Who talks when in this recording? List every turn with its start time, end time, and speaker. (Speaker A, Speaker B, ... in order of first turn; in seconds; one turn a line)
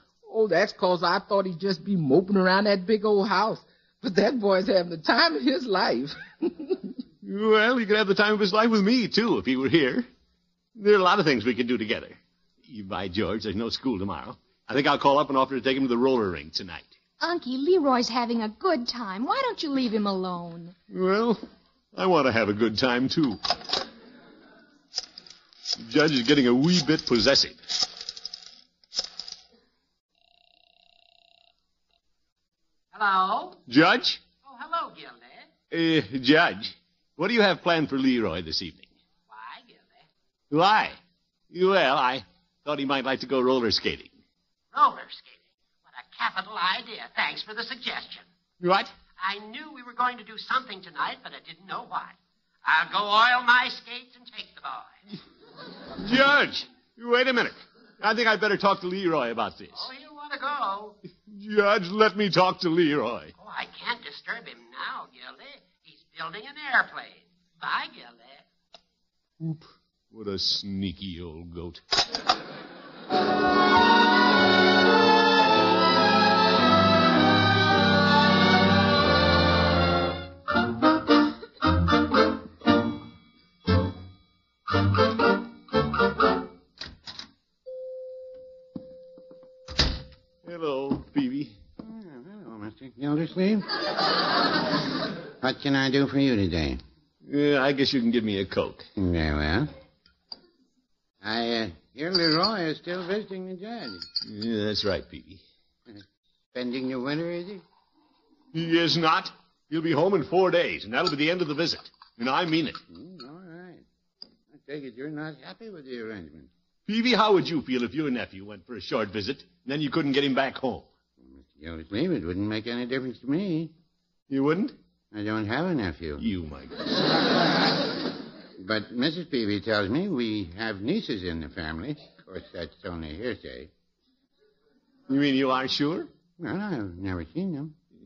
Speaker A: 0.2-6.9
Speaker B: 7.2-10.1
Speaker B: 10.8-16.9
Speaker C: 17.2-20.8
Speaker B: 20.9-21.4
Speaker B: 21.9-23.4
Speaker B: 25.7-27.6
Speaker D: 32.9-33.6
Speaker B: 33.7-34.2
Speaker D: 34.4-35.5
Speaker B: 35.7-38.9
Speaker D: 39.3-40.0
Speaker B: 40.5-41.0
Speaker B: 41.5-44.2
Speaker D: 44.7-45.4
Speaker D: 45.9-48.2
Speaker B: 48.6-48.9
Speaker D: 49.2-54.9
Speaker B: 56.0-59.9
Speaker D: 59.8-61.0
Speaker B: 61.3-63.3
Speaker D: 63.4-68.4
Speaker B: 69.4-71.8
Speaker B: 90.4-91.6
Speaker E: 91.8-93.7
Speaker E: 95.4-96.8
Speaker B: 97.2-98.9
Speaker E: 99.0-99.7
Speaker E: 101.2-104.0
Speaker B: 104.2-105.4
Speaker E: 105.9-107.6
Speaker B: 108.5-112.8
Speaker E: 112.9-113.8
Speaker E: 114.5-116.5
Speaker B: 116.9-120.9
Speaker E: 121.2-123.7
Speaker B: 124.3-124.8
Speaker E: 125.1-126.2
Speaker B: 126.2-127.2
Speaker E: 128.6-133.7
Speaker B: 135.1-136.1
Speaker E: 136.4-137.7